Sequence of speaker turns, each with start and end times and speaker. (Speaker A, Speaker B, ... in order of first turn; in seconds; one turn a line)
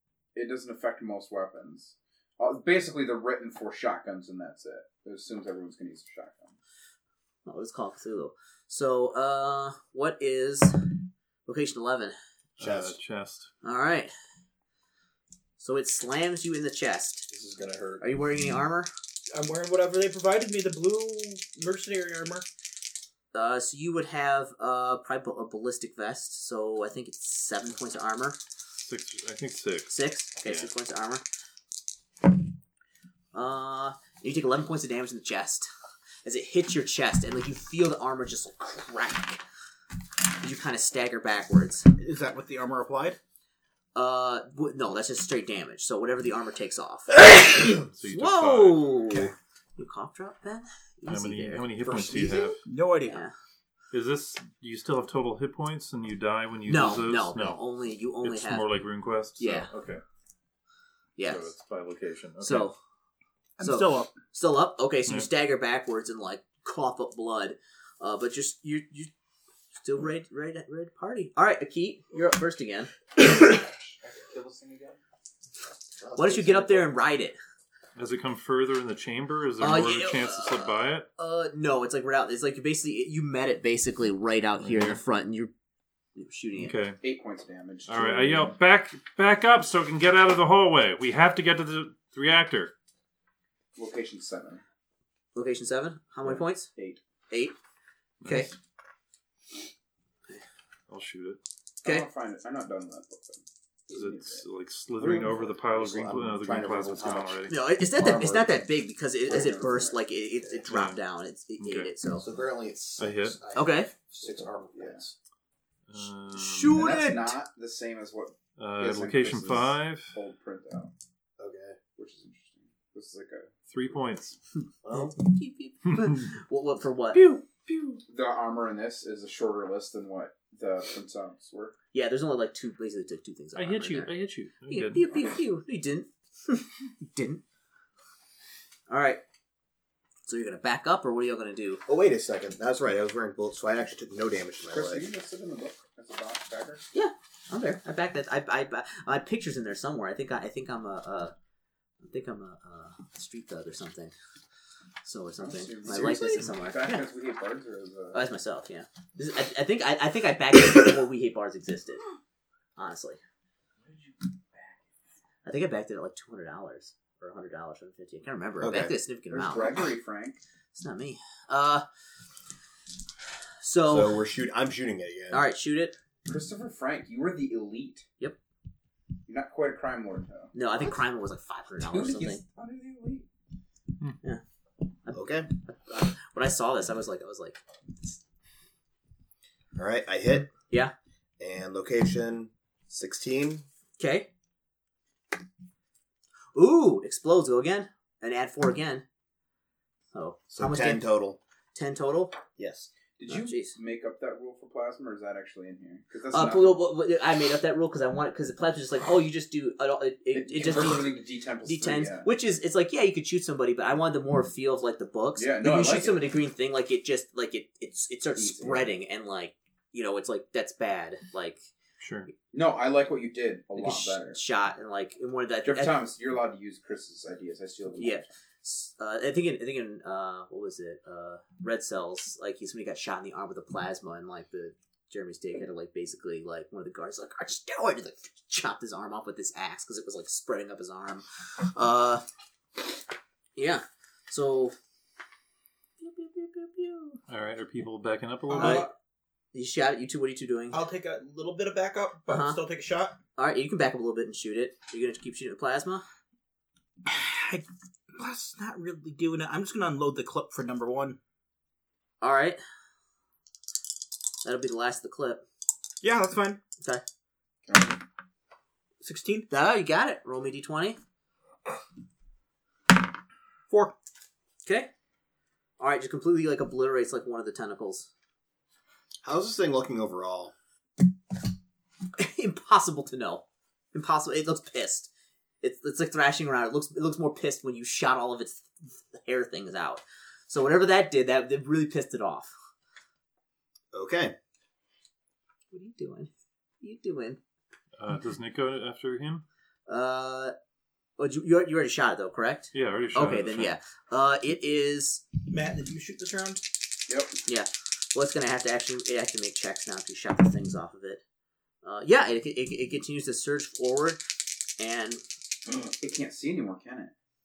Speaker A: 0.3-6.6
Speaker B: 7.5-10.8
Speaker B: 11.5-12.2
Speaker C: 12.6-13.5
Speaker D: 12.6-13.0
Speaker B: 13.6-14.1
Speaker B: 15.6-17.3
Speaker D: 17.3-18.0
Speaker B: 18.0-18.9
Speaker E: 19.3-22.5
Speaker B: 23.3-28.4
Speaker C: 28.8-30.7
Speaker B: 29.9-31.2
Speaker B: 33.3-35.7
Speaker B: 36.2-39.4
Speaker B: 40.4-41.9
Speaker E: 42.0-43.2
Speaker B: 44.0-47.5
Speaker C: 47.8-48.9
Speaker B: 48.0-52.2
Speaker C: 51.1-52.6
Speaker D: 51.9-52.4
Speaker E: 52.6-53.2
Speaker B: 53.0-53.3
Speaker C: 53.9-57.6
Speaker B: 56.7-58.7
Speaker C: 58.2-60.0
Speaker B: 59.4-59.7
Speaker B: 61.2-61.5
Speaker C: 61.2-62.7
Speaker B: 62.4-62.8
Speaker E: 63.6-64.1
Speaker B: 63.6-69.1
Speaker B: 69.8-72.9
Speaker A: 73.4-75.0
Speaker D: 76.0-77.0
Speaker B: 76.2-77.4
Speaker C: 78.0-81.1
Speaker B: 79.6-85.5
Speaker C: 84.6-85.0
Speaker B: 86.2-86.8
Speaker C: 86.6-87.0
Speaker A: 87.0-88.5
Speaker C: 87.9-92.7
Speaker A: 93.8-94.6
Speaker B: 95.3-96.7
Speaker A: 96.2-97.0
Speaker B: 97.3-97.5
Speaker C: 98.2-98.6
Speaker B: 98.2-98.5
Speaker C: 100.9-101.4
Speaker A: 101.8-104.5
Speaker C: 103.9-107.6
Speaker D: 105.0-107.5
Speaker B: 107.5-112.2
Speaker A: 108.0-108.6
Speaker A: 109.3-110.0
Speaker C: 110.7-111.0
Speaker C: 111.6-111.9
Speaker D: 112.2-115.2
Speaker C: 113.0-113.4
Speaker B: 113.5-113.9
Speaker A: 114.2-115.0
Speaker C: 115.9-116.8
Speaker B: 116.3-117.4
Speaker A: 116.7-120.9
Speaker C: 118.6-120.2
Speaker D: 121.4-121.8
Speaker A: 122.0-124.0
Speaker C: 123.7-124.4
Speaker D: 124.8-125.2
Speaker B: 124.9-127.4
Speaker C: 125.9-126.2
Speaker A: 128.0-131.8
Speaker B: 131.9-134.1
Speaker C: 133.6-135.2
Speaker B: 134.7-137.4
Speaker B: 138.9-139.2
Speaker B: 140.3-141.8
Speaker D: 141.9-145.1
Speaker A: 144.7-146.8
Speaker B: 146.9-151.3
Speaker B: 152.0-154.1
Speaker B: 155.0-157.0
Speaker A: 155.4-158.2
Speaker B: 158.1-162.0
Speaker B: 162.8-163.2
Speaker A: 163.8-164.7
Speaker B: 165.4-169.8
Speaker D: 168.6-168.9
Speaker A: 169.3-170.4
Speaker B: 170.7-171.8
Speaker B: 173.6-174.2
Speaker D: 173.9-175.4
Speaker B: 175.3-175.9
Speaker A: 176.3-178.1
Speaker A: 179.3-180.5
Speaker B: 180.5-182.4
Speaker A: 181.8-183.3
Speaker B: 185.1-188.2
Speaker D: 185.1-185.5
Speaker D: 189.8-190.5
Speaker D: 191.4-193.7
Speaker B: 194.0-194.3
Speaker B: 196.6-199.0
Speaker B: 200.1-201.1
Speaker D: 200.5-201.4
Speaker B: 201.7-202.4
Speaker D: 202.6-202.9
Speaker A: 203.2-206.8
Speaker B: 203.3-203.8
Speaker B: 206.3-221.7
Speaker A: 210.3-212.3
Speaker A: 215.4-216.2
Speaker A: 218.4-218.9
Speaker C: 222.0-222.3
Speaker A: 222.5-224.4
Speaker B: 223.8-226.0
Speaker A: 225.6-228.3
Speaker B: 228.0-242.2
Speaker B: 243.6-244.8
Speaker B: 246.0-247.2
Speaker C: 247.3-248.9
Speaker E: 248.5-248.9
Speaker B: 248.6-248.9
Speaker B: 249.5-250.8
Speaker E: 250.7-253.2
Speaker B: 252.3-252.6
Speaker B: 253.4-256.0
Speaker E: 257.1-261.2
Speaker B: 262.2-262.6
Speaker B: 264.4-265.4
Speaker E: 266.0-266.6
Speaker A: 267.7-268.0
Speaker E: 269.0-269.5
Speaker B: 269.5-271.0
Speaker B: 274.6-274.9
Speaker B: 275.8-278.1
Speaker D: 279.2-280.5
Speaker B: 282.2-285.1
Speaker B: 285.6-292.5
Speaker D: 293.9-294.4
Speaker B: 295.7-297.4
Speaker C: 298.0-299.4
Speaker B: 299.9-300.5
Speaker B: 301.2-305.2
Speaker C: 302.7-303.8
Speaker E: 305.5-306.6
Speaker A: 307.1-307.4
Speaker B: 307.5-311.2
Speaker B: 311.8-314.2
Speaker B: 314.8-315.2
Speaker A: 315.8-317.1